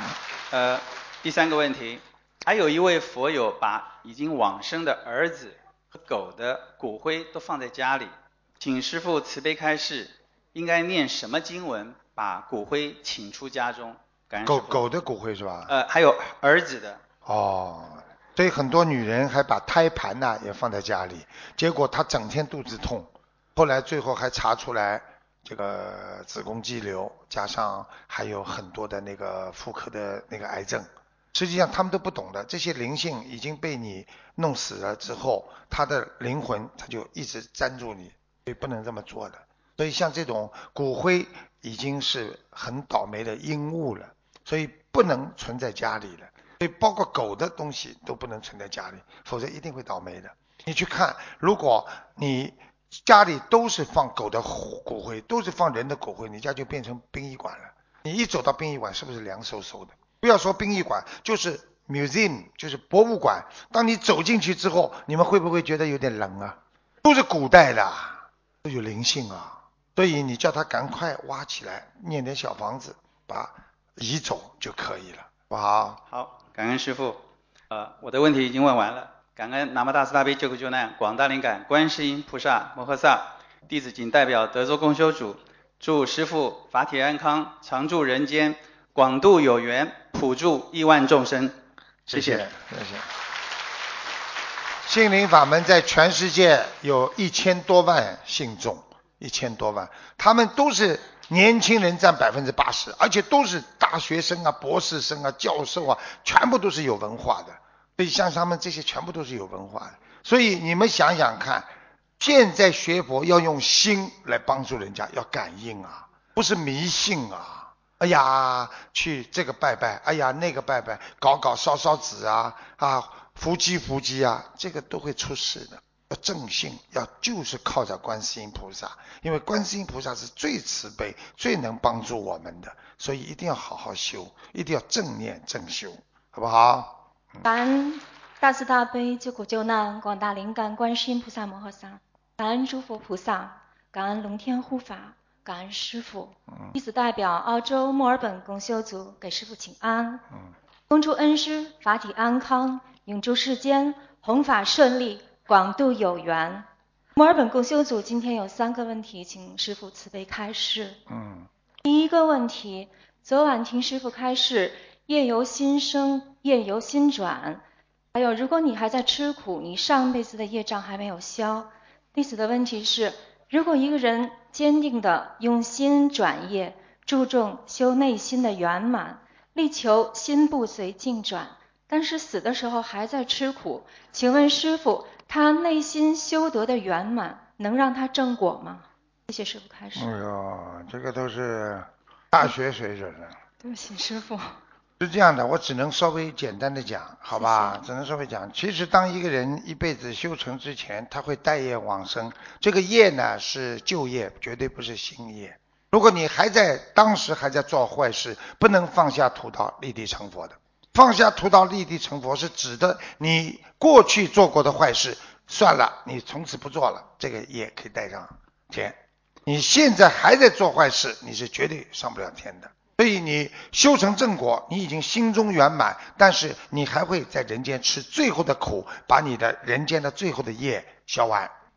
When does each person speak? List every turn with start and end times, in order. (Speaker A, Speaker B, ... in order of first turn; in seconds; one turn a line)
Speaker A: 0.5-14.9
Speaker B: 14.4-15.7
Speaker A: 15.7-17.0
Speaker B: 17.2-76.0
Speaker A: 76.1-91.6
Speaker B: 92.1-93.1
Speaker A: 92.1-92.5
Speaker B: 94.8-137.0
Speaker C: 137.4-150.2
Speaker C: 150.9-161.0
Speaker B: 161.1-161.5
Speaker C: 161.8-167.6
Speaker C: 168.1-190.1
Speaker B: 189.9-193.3
Speaker C: 193.6-194.6
Speaker B: 195.0-231.5
Speaker C: 197.3-197.8